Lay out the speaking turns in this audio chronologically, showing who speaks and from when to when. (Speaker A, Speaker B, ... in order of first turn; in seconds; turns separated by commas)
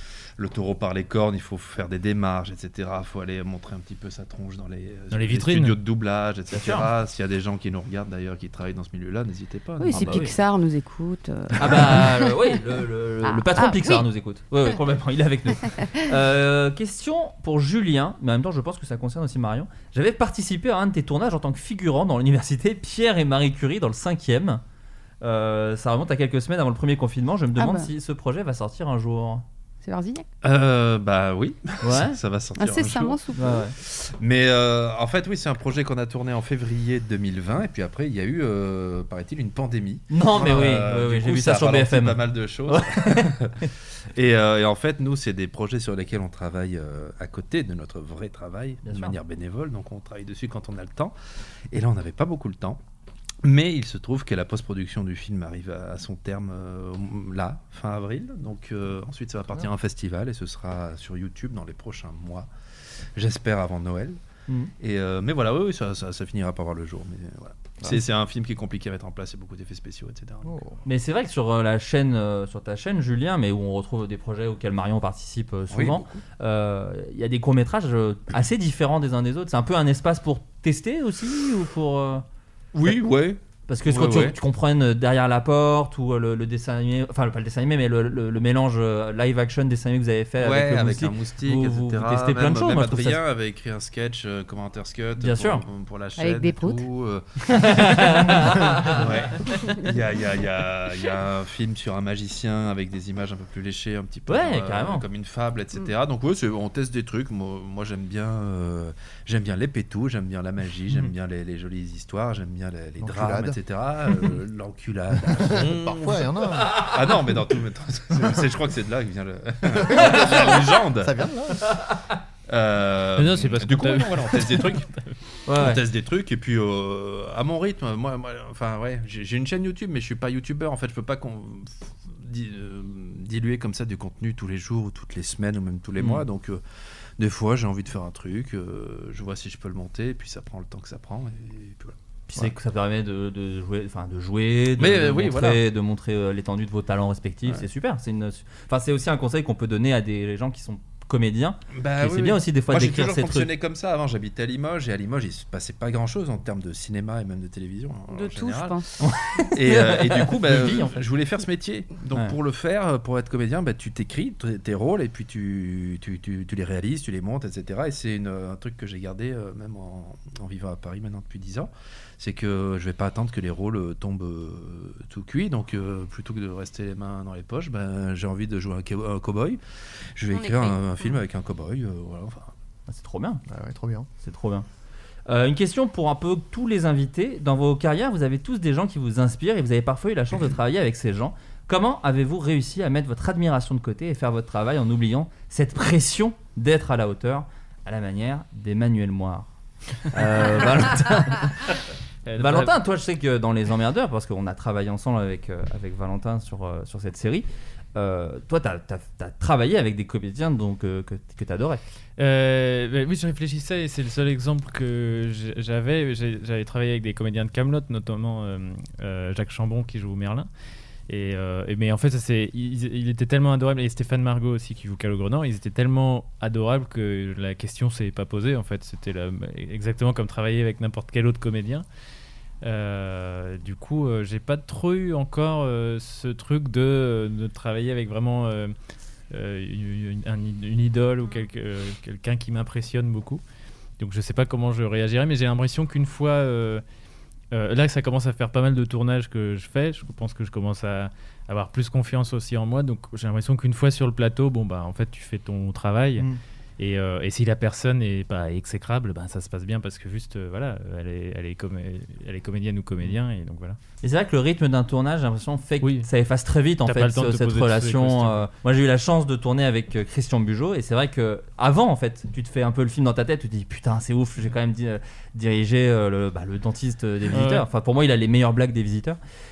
Speaker A: 0.4-10.2, Speaker B: 5.1-5.8, Speaker C: 6.5-6.9, Speaker D: 9.8-12.6, Speaker C: 9.9-10.4, Speaker C: 11.6-24.6, Speaker D: 13.2-14.1, Speaker C: 25.2-29.4, Speaker D: 27.6-27.9, Speaker D: 29.8-30.3, Speaker A: 30.4-33.2, Speaker C: 31.8-32.2, Speaker D: 32.6-33.7, Speaker C: 33.3-33.7, Speaker A: 33.8-51.1, Speaker C: 40.1-43.4, Speaker C: 48.9-49.2, Speaker A: 51.7-52.8, Speaker A: 53.4-62.5, Speaker A: 63.2-64.2, Speaker A: 64.8-70.7, Speaker E: 70.5-70.7, Speaker C: 70.8-82.2, Speaker A: 75.7-76.2, Speaker A: 82.7-84.4, Speaker C: 83.7-93.2, Speaker A: 90.4-121.2, Speaker C: 95.2-95.6, Speaker D: 96.2-96.9, Speaker C: 97.5-99.0, Speaker C: 104.3-105.1, Speaker E: 113.0-113.6, Speaker E: 115.3-116.8, Speaker E: 118.2-118.4, Speaker E: 119.7-121.7, Speaker A: 122.5-124.9, Speaker B: 123.2-125.0, Speaker C: 125.5-125.8, Speaker A: 125.5-136.6, Speaker C: 136.0-136.2, Speaker A: 137.2-142.0, Speaker C: 142.3-153.5, Speaker A: 144.8-145.7, Speaker A: 151.7-158.8, Speaker D: 158.1-158.8, Speaker C: 159.0-161.0, Speaker A: 159.5-179.6, Speaker A: 180.2-182.5, Speaker D: 180.3-181.2, Speaker C: 182.9-183.4, Speaker E: 183.5-184.1, Speaker C: 184.2-184.7, Speaker C: 185.3-199.5, Speaker C: 200.1-201.8, Speaker B: 202.3-202.8, Speaker C: 202.4-211.8, Speaker B: 212.2-220.5, Speaker B: 221.1-231.8, Speaker B: 232.6-238.7, Speaker B: 239.3-243.4, Speaker B: 244.0-246.8, Speaker B: 247.5-263.8, Speaker C: 264.0-279.2, Speaker B: 265.8-266.1, Speaker B: 266.9-268.5, Speaker B: 277.3-277.6